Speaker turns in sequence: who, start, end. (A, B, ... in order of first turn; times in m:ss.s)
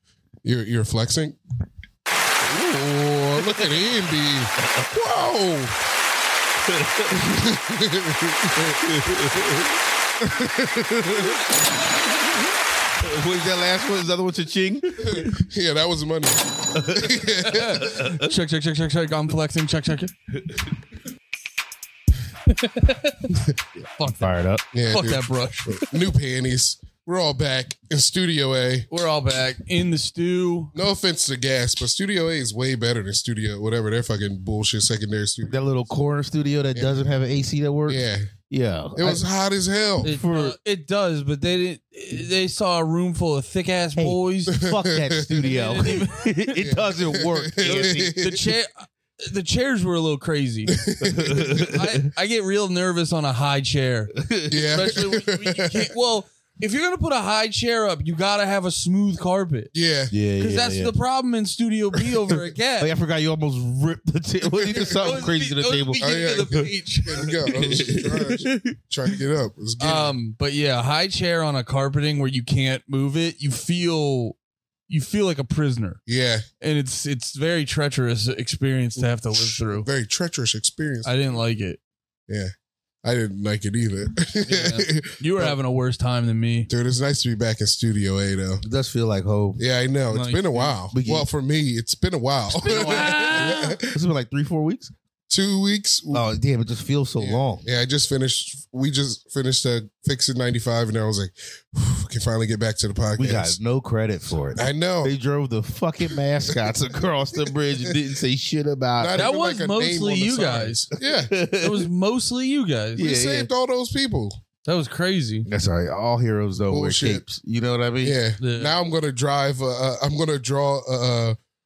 0:00.4-0:01.4 A
0:02.4-0:05.8 A
0:06.6-0:07.2 B
0:07.1-0:09.3 A
0:08.8-0:09.7 B
0:10.2-0:11.4 A
0:13.0-0:15.3 B
0:15.1-0:18.0 A
0:16.7-0:18.3 B
0:17.4-0:20.1 C
0:22.5-0:23.5 C
0:24.0-0:24.3 C
0:24.2-0:24.6 B
0:24.7-0:28.9 A
0:24.9-0:25.9 C
0:28.9-0:30.7 C
0:30.8-0:35.6 A
0:35.5-0:39.2 B
0:36.8-0:37.0 A
0:37.9-0:38.3 A
0:39.0-0:40.1 A
0:40.0-0:44.6 C
0:40.0-0:40.6 B
0:44.0-0:48.2 B
0:44.5-0:45.5 A
0:45.4-0:46.5 C
0:46.6-0:48.5 A
0:48.2-0:59.7 C
0:50.7-0:51.7 A
0:51.0-0:51.9 B
0:54.2-0:54.8 B
0:54.5-0:55.9 A
0:59.7-1:00.1 A
1:00.1-1:00.9 B
1:00.4-1:02.9 C
1:02.8-1:06.7 B
1:04.6-1:05.3 A
1:05.0-1:08.0 C
1:06.0-1:10.2 A
1:07.5-1:08.6 B
1:09.8-1:16.0 C
1:16.1-1:16.4 A
1:16.6-1:19.9 C
1:19.3-1:21.1 A
1:21.0-1:21.8 C
1:23.0-1:25.6 A
1:24.5-1:26.7 C
1:26.7-1:28.6 A
1:28.6-1:29.6 B
1:29.6-1:34.0 A
1:30.1-1:30.8 C
1:30.9-1:31.3 B
1:32.6-1:33.8 C
1:32.6-1:34.9 B
1:35.3-1:36.2 A
1:36.1-1:37.6 B
1:37.2-1:43.6 A
1:43.2-1:49.3 B
1:44.6-1:45.2 A
1:47.5-1:47.9 A
1:49.0-1:51.3 A
1:49.2-1:50.8 C
1:51.3-1:51.9 B
1:51.6-1:53.2 C
1:53.0-1:54.4 A
1:53.0-1:53.5 B
1:54.6-1:55.5 C
1:55.5-1:58.2 B
1:56.7-1:57.2 A
1:58.0-2:01.4 A
1:58.4-1:58.8 C